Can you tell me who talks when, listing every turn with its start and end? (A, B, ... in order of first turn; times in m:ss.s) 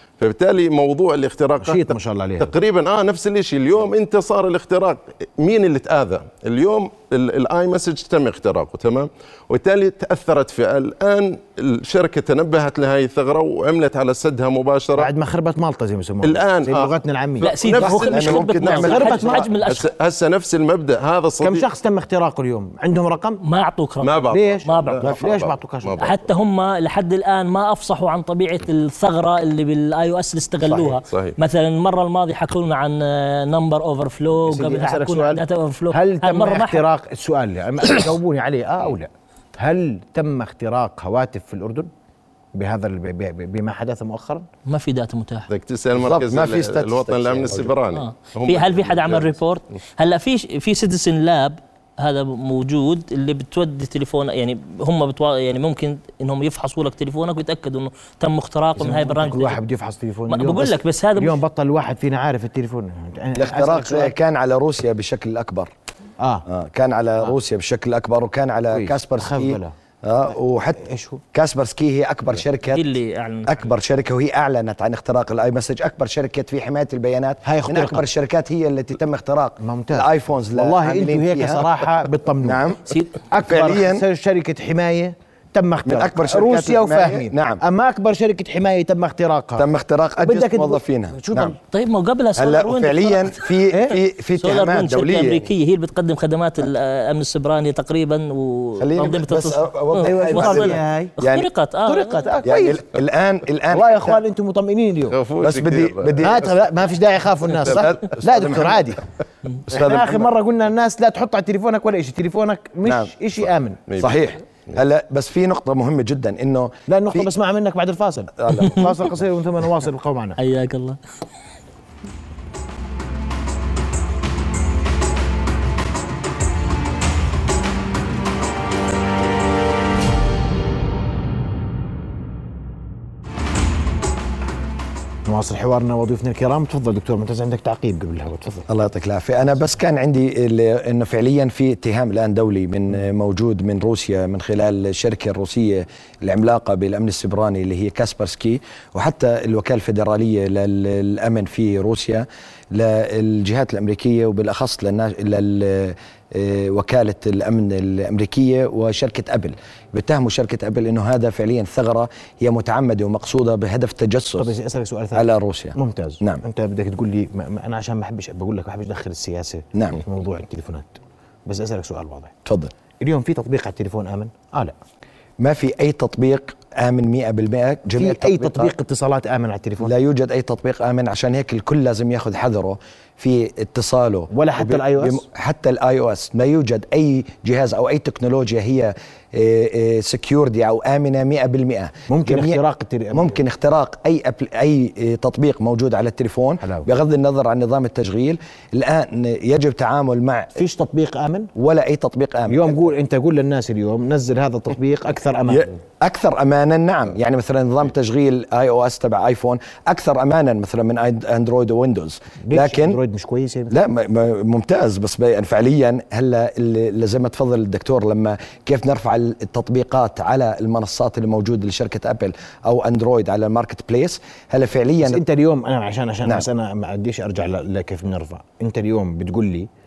0:00.2-0:15.1 A
0:01.6-0:02.5 B
0:15.0-0:17.5 B
0:16.2-0:21.7 A
0:17.4-0:19.9 C
0:17.8-0:19.5 D
0:18.7-0:19.5 B
0:21.4-0:23.4 B
0:23.4-0:25.1 C
0:24.0-0:26.2 A
0:24.3-0:26.0 B
0:26.0-0:36.8 C
0:30.6-0:31.0 D
0:31.1-0:31.4 A
0:34.4-0:41.9 B
0:42.5-0:44.5 B
0:44.6-0:45.5 C
0:45.5-0:49.3 A
0:45.9-0:47.7 D
0:47.9-0:59.6 C
0:58.8-1:04.1 B
1:00.3-1:01.4 C
1:03.3-1:05.7 D
1:06.2-1:06.4 B
1:06.5-1:10.8 D
1:08.7-1:09.7 B
1:10.8-1:11.2 B
1:11.3-1:12.9 D
1:12.7-1:13.7 C
1:13.4-1:21.8 D
1:17.4-1:18.0 B
1:19.6-1:22.6 B
1:22.4-1:24.0 D
1:23.3-1:29.7 B
1:25.8-1:27.6 D
1:29.6-1:31.5 D
1:30.2-1:31.6 B
1:31.7-1:33.5 C
1:32.4-1:35.5 D
1:33.7-1:34.0 B
1:34.4-1:42.3 C
1:38.8-1:41.5 D
1:40.0-1:41.1 B
1:41.8-1:42.8 B
1:42.4-1:44.2 D
1:43.7-1:45.2 B
1:45.1-1:46.3 A
1:45.4-1:46.5 D
1:46.2-1:49.0 B
1:47.6-1:48.9 D
1:49.7-1:50.3 D
1:49.7-1:53.8 B
1:52.8-1:53.1 D
1:53.9-1:54.7 A
1:54.0-1:57.3 D
1:56.9-2:00.4 B
1:58.4-1:58.9 D
2:00.4-2:01.0 C
2:15.2-2:18.7 B
2:18.7-2:44.5 D
2:44.4-2:52.3 B
2:45.1-2:46.4 D
2:49.7-2:50.0 D
2:52.4-2:52.7 D
2:53.0-2:54.7 B
2:55.4-2:58.7 D
2:58.0-2:59.9 B
2:59.8-3:12.6 D
3:04.3-3:05.2 B
3:12.1-3:13.4 B
3:13.1-3:20.6 D
3:16.6-3:16.9 B
3:20.6-3:21.5 B
3:21.5-3:22.9 D
3:22.5-3:25.8 B
3:25.5-3:33.0 D
3:32.4-3:33.7 B
3:33.7-3:45.2 D
3:45.0-3:49.7 B